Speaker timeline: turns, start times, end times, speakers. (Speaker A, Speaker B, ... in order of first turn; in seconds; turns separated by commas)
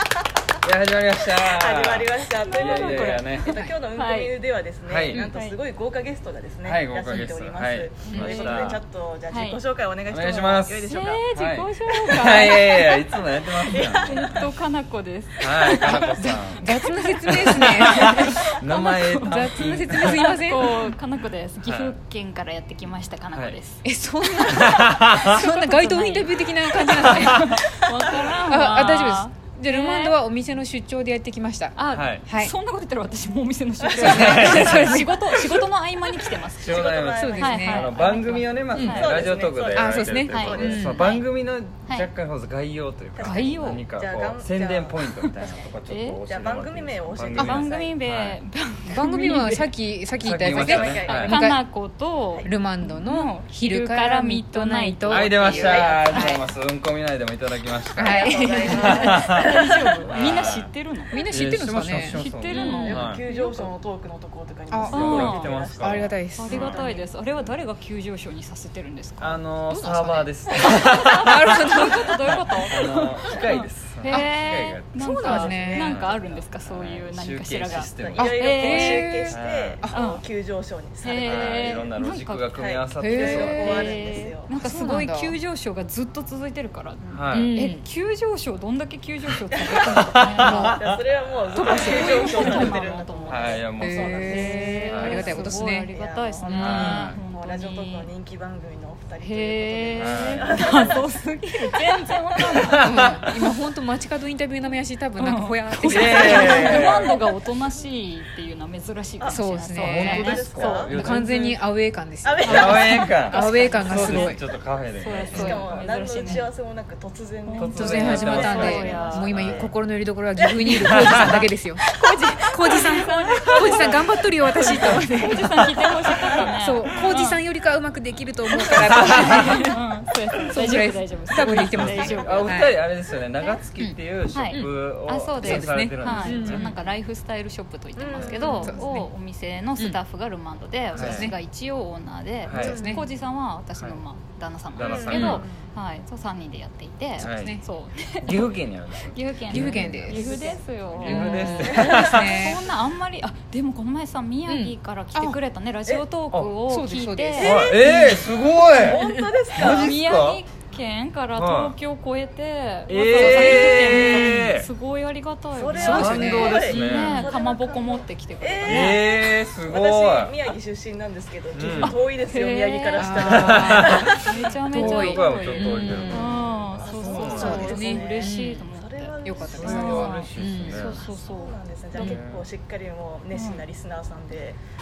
Speaker A: 0.6-3.6, Speaker B: 1.4-11.2, Speaker C: 2.4-4.4, Speaker A: 4.8-5.3, Speaker C: 5.1-5.6, Speaker A: 6.6-8.8, Speaker C: 8.1-8.7, Speaker C: 9.3-9.6, Speaker A: 10.1-14.4, Speaker C: 10.8-13.1, Speaker B: 12.1-12.6, Speaker B: 13.7-14.4, Speaker C: 14.0-30.2, Speaker A: 15.4-16.7, Speaker D: 15.8-18.3, Speaker A: 17.2-20.2, Speaker D: 19.2-20.9, Speaker A: 21.6-21.9, Speaker D: 23.8-31.7, Speaker A: 24.5-25.2, Speaker A: 27.0-27.4, Speaker C: 31.7-39.1, Speaker A: 31.9-32.2, Speaker D: 32.3-32.5, Speaker D: 34.0-35.2, Speaker A: 34.0-35.1, Speaker B: 34.1-34.6, Speaker B: 36.5-41.0, Speaker A: 36.6-48.4, Speaker D: 37.1-37.9, Speaker D: 38.7-39.1, Speaker D: 39.7-41.0, Speaker C: 40.3-41.2, Speaker B: 43.1-45.7, Speaker C: 43.2-43.8, Speaker C: 45.9-46.2, Speaker B: 46.3-48.0, Speaker C: 47.4-49.7, Speaker D: 48.9-51.6, Speaker A: 50.2-51.4, Speaker B: 50.2-51.5, Speaker C: 51.0-56.4, Speaker D: 52.4-56.4, Speaker A: 55.1-59.5, Speaker D: 57.9-59.2, Speaker B: 58.0-60.5, Speaker C: 58.6-61.3, Speaker A: 60.1-60.7, Speaker D: 61.1-63.4, Speaker A: 61.3-63.2, Speaker C: 61.9-63.7, Speaker B: 62.5-66.1, Speaker D: 64.7-65.2, Speaker C: 64.9-65.6, Speaker A: 64.9-67.6, Speaker D: 65.8-66.9, Speaker C: 66.3-69.4, Speaker B: 66.7-67.0, Speaker A: 69.2-78.3, Speaker D: 69.7-70.3, Speaker C: 70.5-79.2, Speaker D: 71.2-72.4, Speaker B: 75.0-76.5, Speaker D: 75.0-76.0, Speaker B: 78.0-81.9, Speaker D: 78.2-80.0, Speaker A: 79.3-79.8, Speaker C: 79.9-80.2, Speaker C: 81.0-82.5, Speaker A: 81.2-83.9, Speaker B: 82.6-84.5, Speaker D: 83.0-83.9, Speaker C: 83.4-90.7, Speaker D: 84.5-85.3, Speaker A: 87.1-87.6, Speaker D: 87.3-87.8, Speaker B: 89.5-90.1, Speaker A: 89.8-92.7, Speaker D: 90.4-90.8, Speaker B: 90.7-101.1, Speaker D: 91.5-92.9, Speaker C: 91.6-98.1, Speaker A: 93.3-95.3, Speaker D: 93.8-95.9, Speaker D: 96.5-97.1, Speaker A: 96.5-97.2, Speaker C: 99.2-103.5, Speaker A: 99.9-100.8, Speaker A: 102.6-103.2, Speaker D: 102.8-106.9, Speaker C: 105.2-111.0, Speaker A: 105.8-107.1, Speaker B: 106.2-107.1, Speaker D: 109.3-110.3, Speaker A: 109.8-111.6, Speaker B: 110.0-110.9, Speaker D: 110.9-114.4, Speaker B: 112.2-114.3, Speaker A: 112.4-116.3, Speaker C: 112.5-116.5, Speaker B: 115.3-119.6, Speaker D: 115.3-115.6, Speaker C: 117.5-119.3, Speaker A: 117.5-119.7, Speaker D: 117.7-121.8, Speaker B: 120.4-121.4, Speaker A: 120.8-121.4, Speaker C: 121.8-127.4, Speaker B: 121.9-122.4, Speaker D: 122.5-125.6, Speaker B: 123.3-123.8, Speaker A: 124.6-125.8, Speaker D: 126.3-129.8, Speaker A: 126.9-127.3, Speaker C: 128.7-132.6, Speaker A: 128.7-129.3, Speaker D: 130.5-132.8, Speaker A: 131.4-136.7, Speaker B: 131.9-132.5, Speaker C: 134.3-148.5, Speaker D: 135.4-136.8, Speaker B: 137.9-138.9, Speaker A: 138.2-138.7, Speaker D: 138.4-139.1, Speaker D: 140.9-141.4, Speaker A: 140.9-141.3, Speaker A: 142.4-143.0, Speaker D: 142.5-143.0, Speaker B: 142.6-143.0, Speaker A: 144.7-145.5, Speaker B: 144.8-145.7, Speaker D: 145.1-145.4, Speaker A: 147.2-147.5, Speaker D: 147.2-147.6, Speaker A: 148.2-150.2, Speaker C: 149.1-157.6, Speaker D: 149.5-150.5, Speaker B: 150.0-152.5, Speaker A: 151.0-152.3, Speaker D: 151.0-152.6, Speaker D: 154.5-155.4, Speaker D: 156.7-159.3, Speaker B: 157.4-157.9, Speaker A: 157.4-160.4, Speaker B: 158.8-160.0, Speaker C: 159.6-169.0, Speaker A: 161.3-161.7, Speaker A: 162.9-164.7, Speaker B: 163.2-163.6, Speaker B: 165.5-174.2, Speaker D: 165.7-167.3, Speaker A: 165.8-167.3, Speaker A: 168.7-170.4, Speaker A: 171.5-172.0, Speaker C: 172.3-173.1, Speaker D: 173.0-176.4, Speaker A: 173.1-177.8, Speaker C: 173.7-182.2, Speaker B: 176.7-180.3, Speaker D: 177.2-178.7, Speaker D: 179.2-180.8, Speaker A: 179.5-181.0, Speaker B: 180.8-184.6, Speaker A: 181.9-182.4, Speaker C: 183.3-183.6